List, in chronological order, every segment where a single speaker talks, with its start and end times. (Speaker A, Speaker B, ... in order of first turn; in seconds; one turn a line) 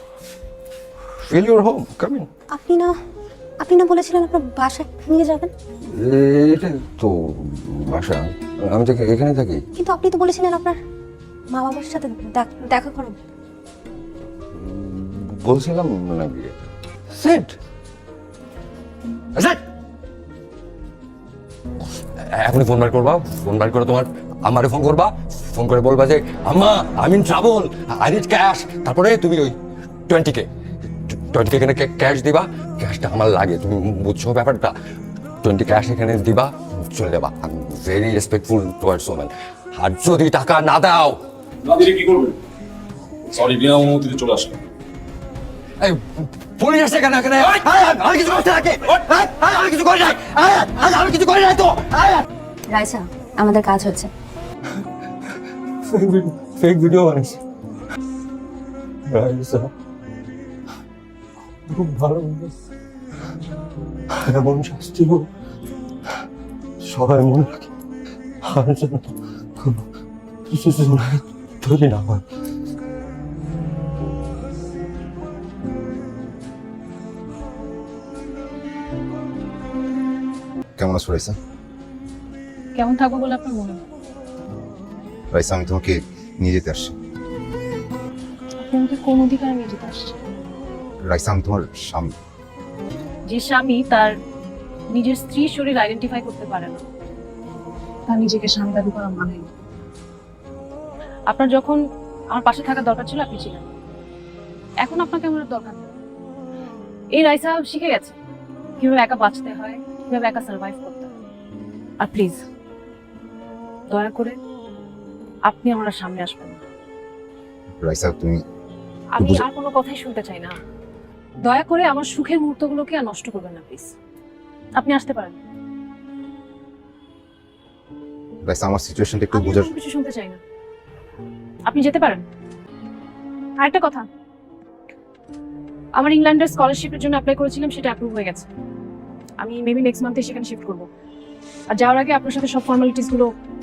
Speaker A: 1.2-2.3
Speaker B: 2.5-3.0
Speaker B: 3.6-5.5
Speaker A: 5.9-9.6
Speaker B: 9.8-10.8
Speaker B: 11.5-13.2
Speaker A: 14.5-16.5
Speaker A: 17.1-17.5
Speaker A: 22.2-29.5
Speaker A: 30.1-30.5
Speaker A: 31.1-34.7
Speaker A: 35.4-41.2
Speaker C: 41.6-42.4
Speaker C: 43.3-44.6
Speaker A: 45.8-52.2
Speaker B: 52.7-54.1
Speaker A: 55.9-57.4
Speaker A: 59.1-59.7
Speaker A: 61.7-62.5
Speaker A: 64.2-65.3
Speaker A: 66.8-67.6
Speaker A: 68.4-69.8
Speaker A: 70.5-72.2
Speaker D: 80.8-81.3
Speaker E: 82.7-83.8
Speaker D: 85.3-86.9
Speaker E: 88.6-90.2
Speaker D: 91.0-92.1
Speaker E: 93.3-94.1
Speaker E: 94.9-96.8
Speaker E: 98.1-99.5
Speaker E: 101.3-101.8
Speaker E: 102.3-103.7
Speaker E: 104.8-105.9
Speaker E: 107.1-108.2
Speaker E: 108.8-111.1
Speaker E: 112.0-112.4
Speaker E: 113.9-114.4
Speaker E: 115.5-116.6
Speaker D: 117.8-118.4
Speaker E: 119.1-120.5
Speaker D: 119.2-119.5
Speaker E: 121.4-123.9
Speaker E: 124.8-125.4
Speaker D: 128.4-129.7
Speaker E: 129.3-130.4
Speaker E: 131.7-132.2
Speaker E: 133.6-134.1
Speaker E: 135.9-138.5
Speaker E: 139.4-140.9
Speaker E: 141.7-143.3